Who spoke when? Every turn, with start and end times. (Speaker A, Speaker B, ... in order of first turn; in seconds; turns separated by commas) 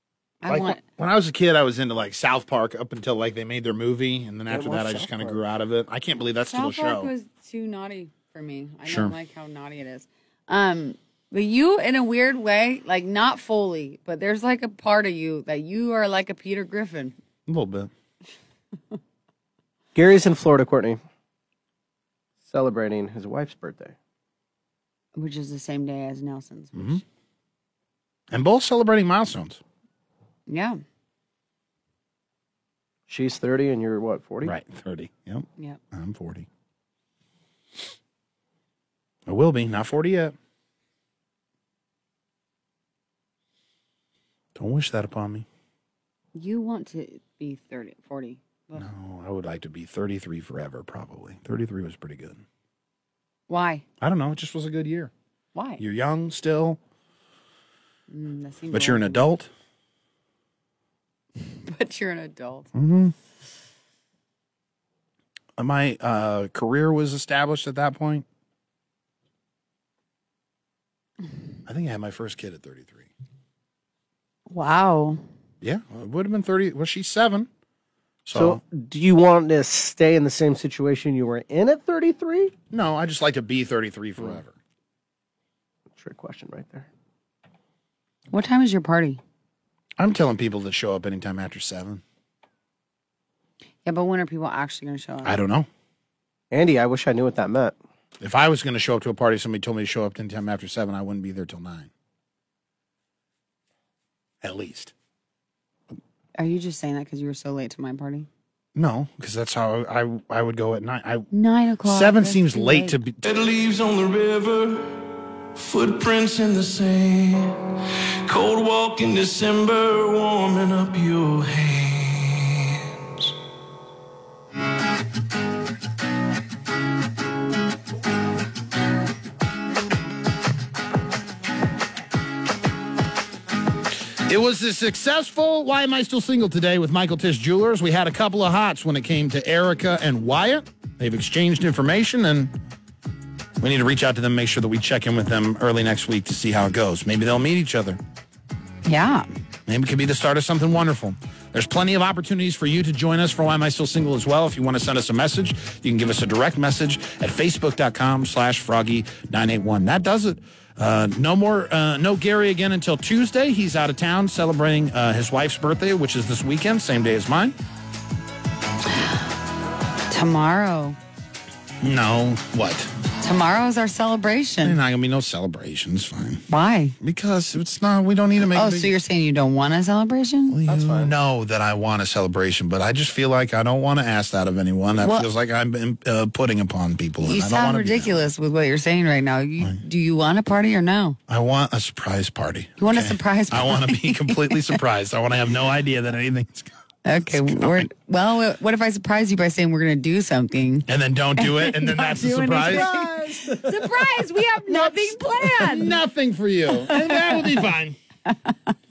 Speaker A: 0.4-0.8, Speaker B: 0.5-7.1, Speaker C: 4.5-5.4, Speaker A: 6.5-17.2, Speaker B: 8.8-9.1, Speaker B: 17.5-17.9, Speaker C: 19.9-21.0, Speaker C: 22.5-24.0, Speaker A: 25.1-27.0, Speaker B: 26.8-27.0, Speaker B: 28.3-29.6, Speaker A: 30.5-30.8, Speaker C: 33.1-34.5, Speaker B: 34.4-36.5, Speaker B: 39.3-40.4, Speaker B: 44.6-45.5, Speaker A: 46.4-48.9, Speaker B: 48.8-52.4, Speaker A: 53.5-53.9, Speaker B: 54.0-55.1, Speaker A: 55.5-55.8, Speaker B: 55.8-56.8, Speaker A: 58.1-59.2, Speaker B: 58.7-59.5, Speaker A: 61.5-62.7, Speaker B: 62.8-63.1, Speaker B: 65.6-68.2, Speaker B: 71.7-73.1, Speaker A: 74.5-75.2, Speaker B: 75.6-77.5, Speaker B: 78.3-78.6, Speaker C: 78.3-82.5, Speaker B: 82.7-84.6, Speaker C: 86.0-86.9, Speaker A: 88.3-89.2, Speaker B: 90.0-92.0, Speaker A: 93.8-95.4, Speaker B: 95.2-95.7, Speaker C: 96.5-97.8, Speaker B: 98.2-101.9, Speaker B: 104.4-104.9, Speaker A: 106.4-108.3, Speaker B: 108.8-111.3, Speaker A: 111.3-113.0, Speaker B: 111.8-113.3, Speaker D: 113.2-123.3, Speaker B: 134.3-142.5, Speaker B: 143.6-148.0, Speaker A: 148.8-149.3, Speaker B: 149.7-167.6, Speaker A: 170.1-171.0, Speaker B: 171.8-172.9, Speaker A: 173.2-174.8, Speaker B: 174.6-176.4, Speaker A: 176.5-176.9, Speaker B: 177.0-178.9, Speaker A: 178.5-180.6, Speaker B: 180.5-188.2, Speaker C: 180.7-181.1, Speaker A: 185.0-185.3, Speaker A: 187.2-191.2, Speaker B: 191.3-196.7, Speaker A: 192.8-194.8, Speaker A: 197.1-206.0, Speaker B: 197.3-197.9, Speaker B: 200.9-203.8, Speaker C: 202.7-203.1, Speaker B: 204.7-208.0, Speaker A: 206.7-207.7, Speaker A: 208.3-208.7